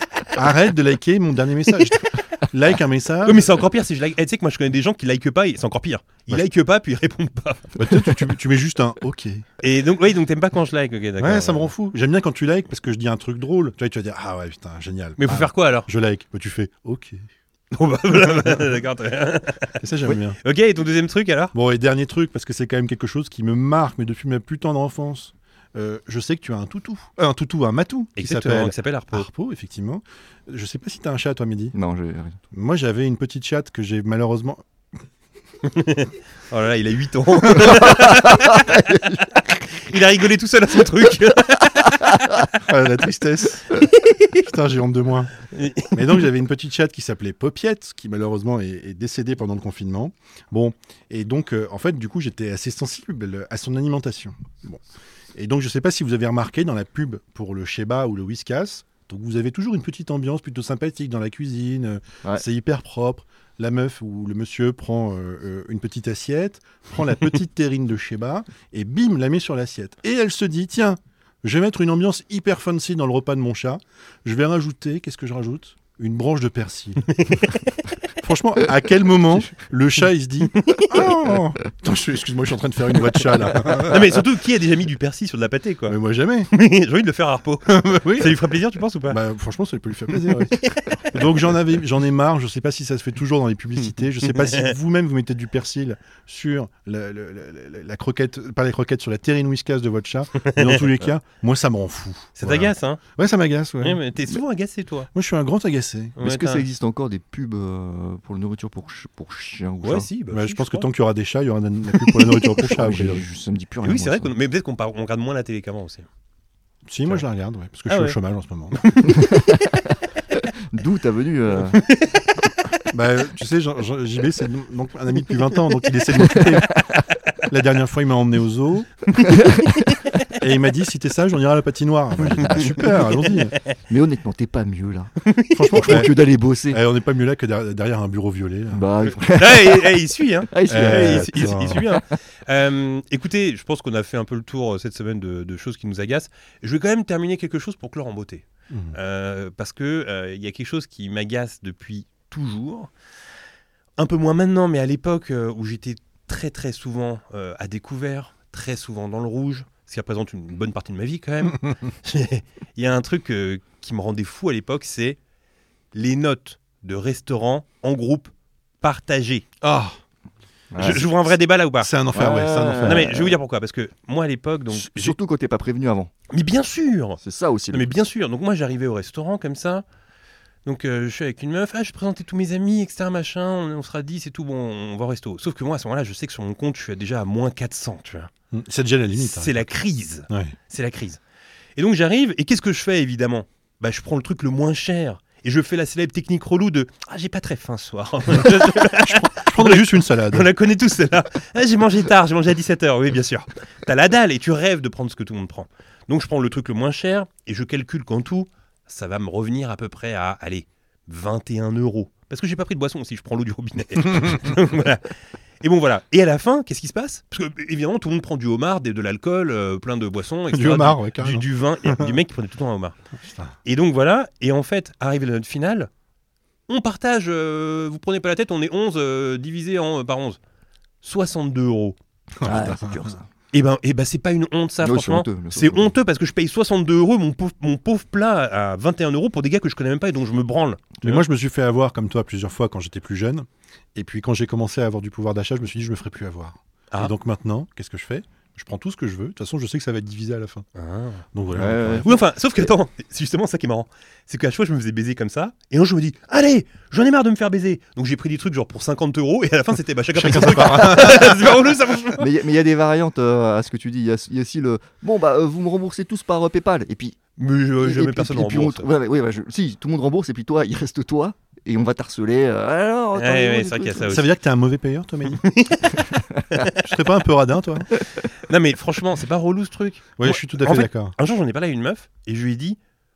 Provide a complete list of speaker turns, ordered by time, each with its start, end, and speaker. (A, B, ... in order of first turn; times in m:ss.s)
0:00.3-0:03.5 A
0:03.2-0:07.8 B
0:07.8-0:09.4 A
0:09.6-0:11.7 B
0:11.2-0:17.2 A
0:15.2-0:15.9 B
0:17.7-0:19.8 B
0:18.2-0:18.7 A
0:19.8-0:20.4 A
0:20.4-0:21.5 B
0:21.5-0:31.8 A
0:28.2-0:29.3 B
0:31.7-0:32.4 C
0:32.5-0:34.6 A
0:35.6-0:39.0 B
0:37.6-0:39.2 C
0:39.8-0:42.5 B
0:42.6-0:43.8 A
0:43.8-0:44.4 B
0:44.4-0:45.3 A
0:45.5-0:46.1 B
0:45.9-0:54.8 A
0:55.4-1:17.5 A
1:17.1-1:17.6 B
1:18.2-1:24.2 A
1:20.6-1:21.0 B
1:23.8-1:26.0 B
1:25.9-1:26.5 A
1:26.5-1:29.2 B
1:27.7-1:28.4 A
1:29.1-1:44.0 A
1:30.2-1:31.3 B
1:34.2-1:34.8 B
1:40.4-1:40.8 B
1:42.4-1:43.0 B
1:43.8-1:45.1 B
1:45.1-1:46.2 A
1:46.2-1:46.6 B
1:46.2-1:50.1 C
1:49.8-1:50.9 B
1:50.3-1:53.2 A
1:52.0-1:52.6 B
1:52.6-1:54.3 C
1:53.8-1:56.1 B
1:56.9-1:58.9 A
1:57.9-1:58.2 B
1:58.8-1:59.5 B
1:59.1-2:01.8 C
2:01.7-2:02.3 B
2:02.9-2:06.8 A
2:06.1-2:07.0 C
2:07.5-2:09.1 A
2:09.1-2:10.0 C
2:10.3-2:13.5 A
2:12.2-2:12.8 C
2:12.7-2:13.6 B
2:13.9-2:15.1 C
2:15.3-2:16.1 B
2:15.5-2:18.9 A
2:15.7-2:16.8 C
2:18.7-2:20.0 C
2:19.4-2:32.9 B
2:20.5-2:22.0 C
2:20.7-2:21.9 A
2:28.7-2:29.0 A
2:34.0-2:45.2 B
2:45.9-2:49.5 B
2:49.6-2:50.0 A
2:50.7-2:51.0 C
2:50.8-2:51.1 A
2:50.8-2:51.9 B
2:51.8-2:53.1 A
2:52.1-2:53.4 C
2:52.8-2:55.0 B
2:54.7-2:56.1 C
2:56.3-2:57.2 B
2:57.2-2:57.9 C
2:57.7-2:59.8 B
3:00.6-3:08.3 B
3:08.5-3:09.6 A
3:09.2-3:11.2 B
3:10.3-3:10.6 A
3:11.8-3:43.0 B
3:18.3-3:20.5 A
3:40.5-3:42.1 A
3:43.2-3:43.6 A
3:43.6-3:45.9 B
3:46.7-3:50.4 B
3:51.0-3:52.0 B
3:52.4-3:53.1 A
3:52.4-3:53.3 C
3:53.5-4:01.2 B
3:54.8-3:55.9 C
4:01.0-4:10.6 A
4:10.8-4:11.2 B
4:11.3-4:12.1 A
4:11.6-4:12.1 C
4:12.0-4:22.3 B
4:20.1-4:21.5 A
4:22.2-4:27.2 C
4:27.4-4:28.9 B
4:27.8-4:34.2 C
4:33.1-4:34.3 B
4:34.1-4:35.4 A
4:35.3-4:36.1 B
4:36.2-4:36.4 C
4:36.7-4:37.9 A
4:38.4-4:42.8 B
4:40.2-4:41.1 A